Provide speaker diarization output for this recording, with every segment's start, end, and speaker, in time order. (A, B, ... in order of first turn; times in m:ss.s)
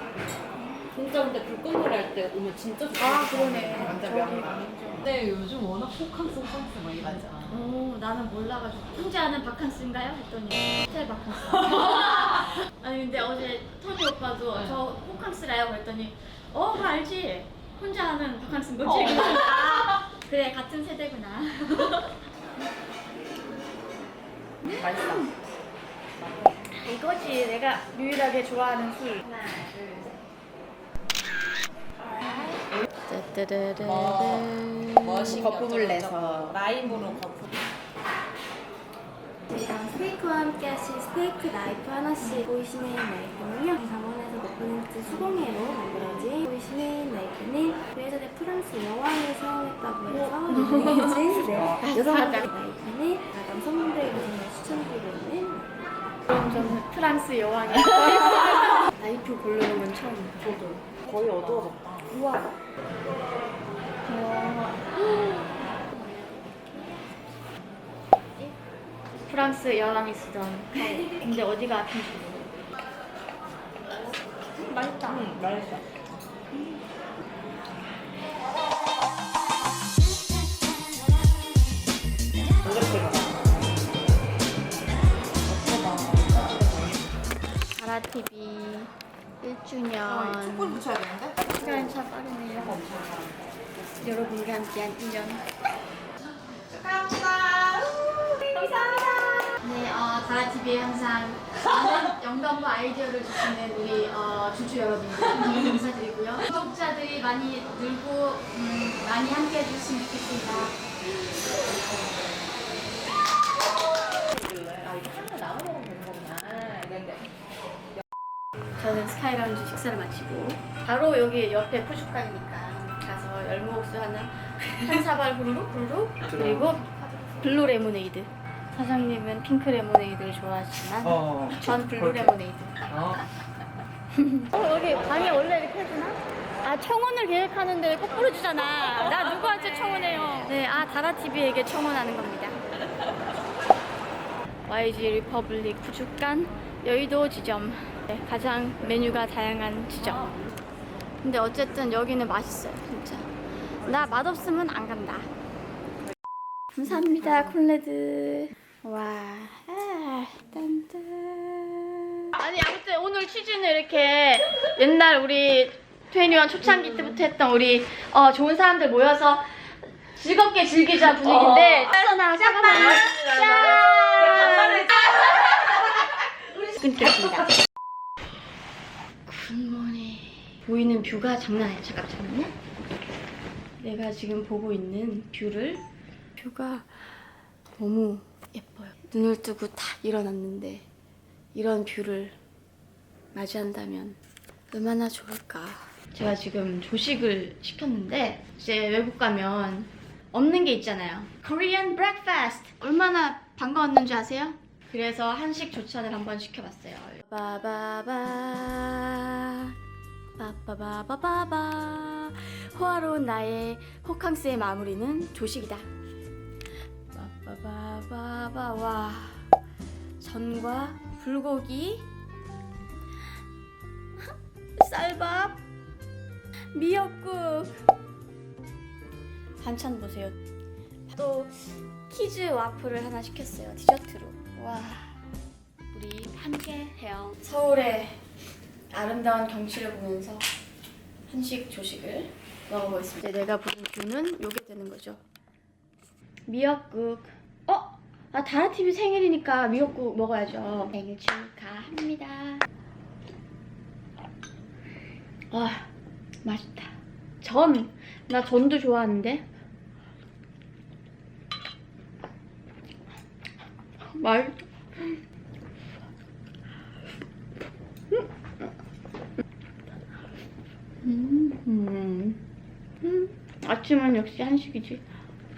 0:00.6-0:00.9 A
0:00.9-0:07.6 B
0:03.0-0:05.1 A
0:07.5-0:22.2 A
0:24.6-0:25.3 A
0:24.8-0:25.3 B
0:26.7-0:29.3 A
0:29.6-0:30.0 B
0:33.1-0:35.6 A
0:33.8-0:34.5 B
0:35.0-0:37.4 B
0:35.6-0:36.0 C
0:39.5-0:55.7 C
0:50.1-0:51.2 A
0:51.5-0:51.8 B
0:51.8-0:52.5 A
0:56.3-1:00.6 A
1:00.6-1:02.0 B
1:02.1-1:02.5 A
1:04.0-1:07.0 A
1:09.2-1:12.5 A
1:14.6-1:15.3 A
1:15.1-1:15.8 B
1:22.6-1:23.5 B
1:25.4-1:27.1 B
1:27.8-1:30.9 A
1:30.1-1:31.9 B
1:31.5-1:32.8 A
1:32.6-1:33.5 B
1:34.0-1:35.4 A
1:36.7-1:39.6 B
1:39.6-1:51.6 A
1:54.3-1:57.3 B
1:58.8-2:12.8 A
2:11.2-2:11.6 B
2:12.9-2:13.2 B
2:14.1-2:22.6 A
2:24.7-2:30.4 A
2:31.2-2:33.3 A
2:33.8-2:35.3 A
2:36.8-2:57.6 A
2:59.3-3:02.6 A
3:03.8-3:05.8 A
3:06.4-3:07.2 A
3:07.7-3:10.9 A
3:11.5-3:12.4 A
3:13.3-3:14.2 A
3:14.7-3:29.8 A
3:30.4-3:35.9 A
3:37.1-3:39.5 A
3:40.2-3:42.1 A
3:44.2-3:45.6 A
3:46.7-3:47.8 A
3:49.6-3:50.4 A
3:51.1-3:55.2 A
3:55.9-3:58.2 A
3:58.9-4:00.5 A
4:01.3-4:05.2 A
4:06.5-4:12.7 A
4:15.5-4:15.9 A
4:16.4-4:19.5 A
4:24.1-4:25.2 A
4:28.1-4:28.7 A
4:31.0-4:32.4 A
4:33.0-4:35.0 A